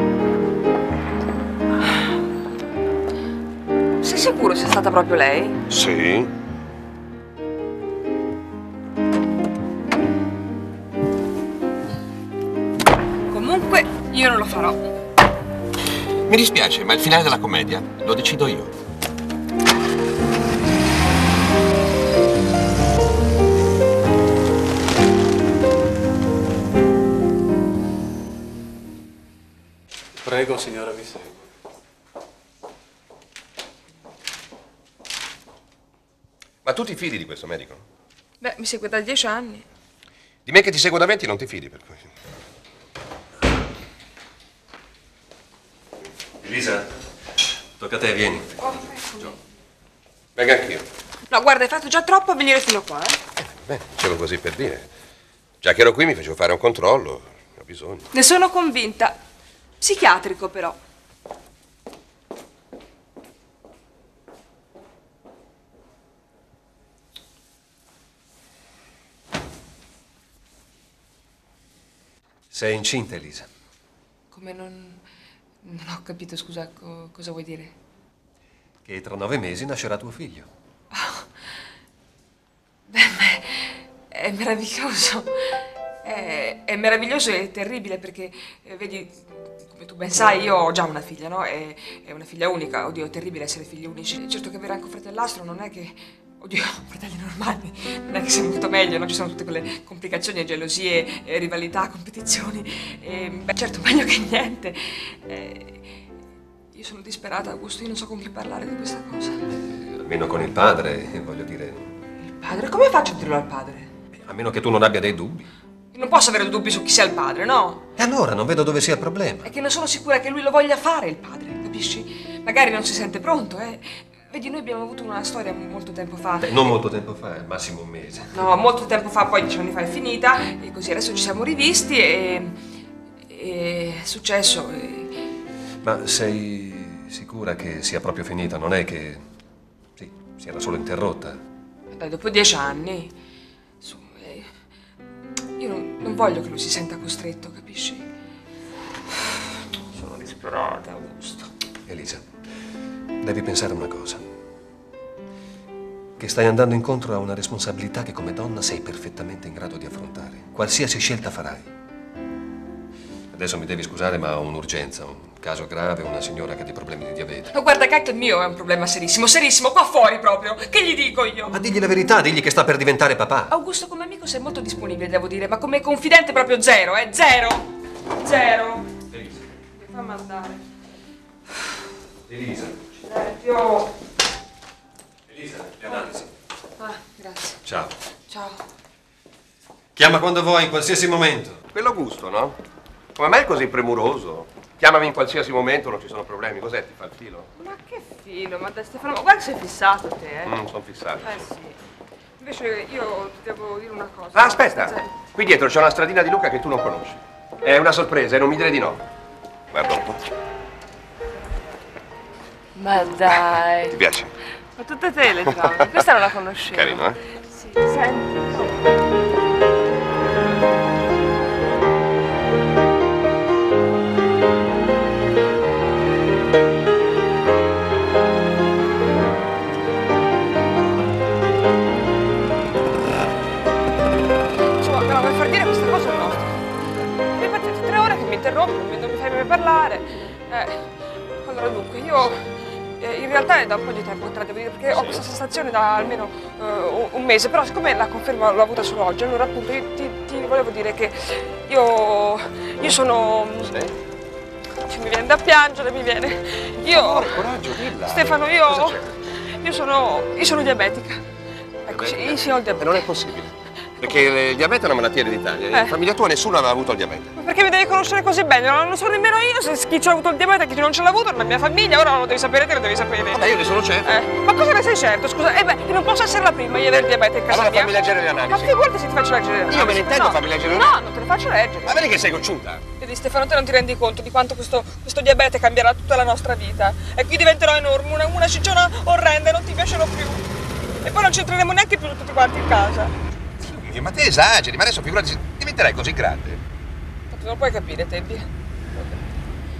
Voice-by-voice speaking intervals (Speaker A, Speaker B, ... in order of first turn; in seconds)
Speaker A: 4.0-5.6, 13.3-14.9, 38.4-39.6, 48.6-49.3, 51.3-53.2, 58.1-59.2, 59.8-60.8, 74.3-75.0, 75.6-77.7, 80.9-81.2, 82.9-89.2, 89.7-105.8, 106.7-109.4, 112.2-113.9, 115.9-117.8, 119.4-126.7, 128.3-132.6, 133.3-135.1, 141.9-143.1, 143.8-144.5, 145.6-148.0, 150.2-151.4, 167.5-171.6, 173.5-177.7, 178.2-178.9, 179.8-180.6, 183.0-183.9, 185.9-186.2, 186.8-187.6, 188.3-188.6, 197.6-200.5, 201.2-201.8, 202.4-205.1, 212.8-214.0, 214.8-218.8, 234.8-236.5, 237.3-240.9, 241.4-253.7, 254.8-257.4, 258.0-259.0, 259.5-261.2, 261.8-263.0, 267.4-273.5, 274.0-282.1, 283.0-290.4, 291.0-293.1, 297.3-298.5
Speaker B: 5.7-6.3, 16.3-18.7, 36.6-37.8, 40.5-42.0, 50.4-50.9, 53.4-54.9, 55.6-58.1, 109.7-111.9, 114.2-115.4, 118.1-119.4, 191.7-192.6, 193.2-197.5, 200.4-201.4, 204.3-209.0, 209.7-210.3, 213.9-214.3, 215.4-216.1, 216.7-217.2, 253.6-253.9, 256.9-259.1, 261.9-267.3, 273.3-274.1, 277.5-278.7, 279.7-280.9, 281.8-282.8, 293.6-296.6
Speaker C: 46.4-46.9, 47.8-48.7, 72.5-73.5, 78.8-80.5, 118.0-119.2, 126.4-128.3, 135.8-139.2, 140.0-141.4, 151.9-152.2, 153.2-154.2, 156.2-161.7, 163.3-167.5, 171.5-173.5, 179.1-179.4, 182.3-182.8, 185.3-186.2, 190.0-191.6